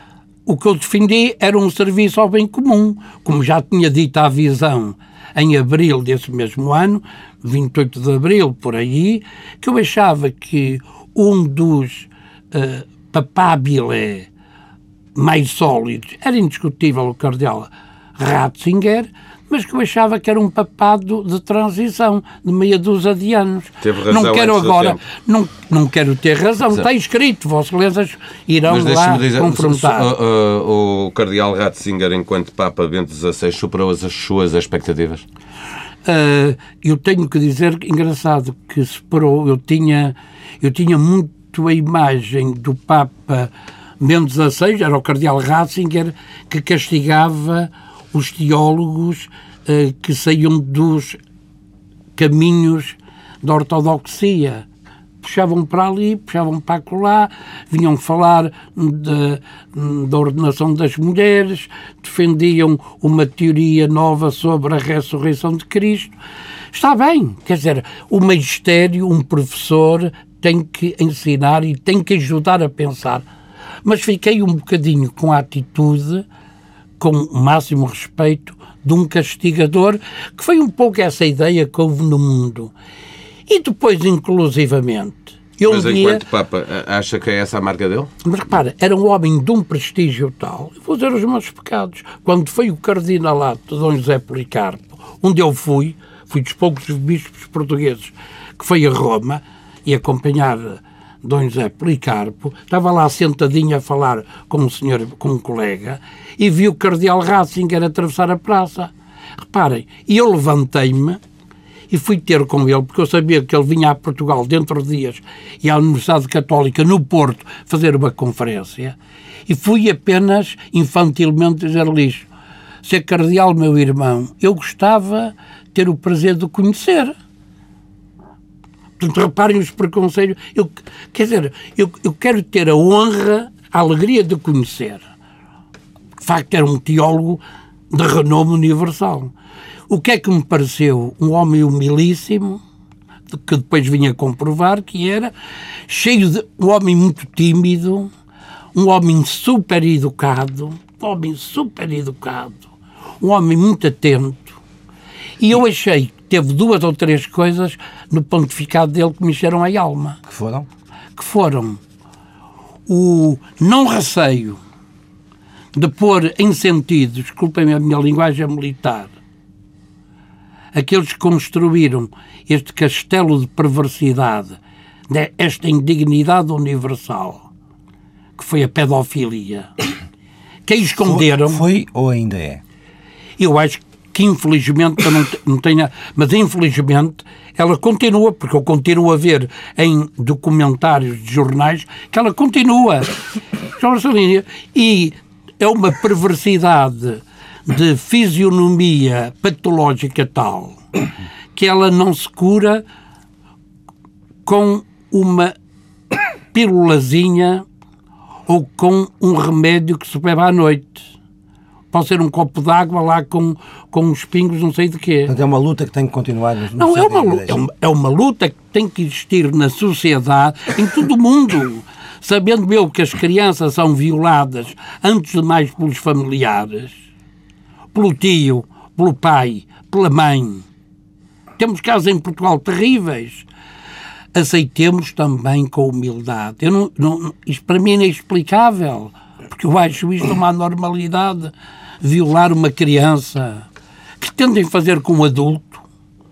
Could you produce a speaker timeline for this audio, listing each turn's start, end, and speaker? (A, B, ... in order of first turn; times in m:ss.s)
0:00.5-0:14.3 A
0:15.2-0:30.1 A
0:23.8-0:25.0 B
0:28.7-0:35.2 B
0:36.0-0:51.2 A
0:52.2-0:54.7 A
0:55.2-1:06.1 A
1:06.7-1:13.3 A
1:13.8-1:16.3 A
1:17.0-1:22.7 A
1:23.5-1:26.2 A
1:25.6-1:28.1 B
1:28.2-1:51.2 A
1:51.9-1:59.0 A
1:59.5-2:02.3 A
2:02.8-2:07.2 A
2:09.0-2:15.0 A
2:16.2-2:19.3 A
2:19.9-2:22.6 A
2:23.3-2:25.3 A
2:25.9-2:28.1 A
2:28.8-2:32.7 A
2:33.2-2:34.6 A
2:35.4-2:40.2 A
2:40.3-2:40.7 C
2:41.2-2:41.8 A
2:42.9-2:44.6 A
2:45.7-2:49.1 A
2:50.7-2:54.6 A
2:55.1-2:57.5 A
2:58.4-2:59.7 A
3:00.7-3:01.6 A
3:01.0-3:02.6 C
3:03.4-3:13.1 A
3:13.7-3:20.8 A
3:21.6-3:22.8 A
3:24.4-3:25.5 A
3:26.5-3:27.6 A
3:28.5-3:31.1 A
3:31.9-3:35.3 A
3:35.3-3:37.7 C
3:36.8-3:47.0 A
3:47.9-3:50.7 A
3:51.6-3:53.5 A
3:54.3-4:03.7 A
4:04.2-4:05.8 A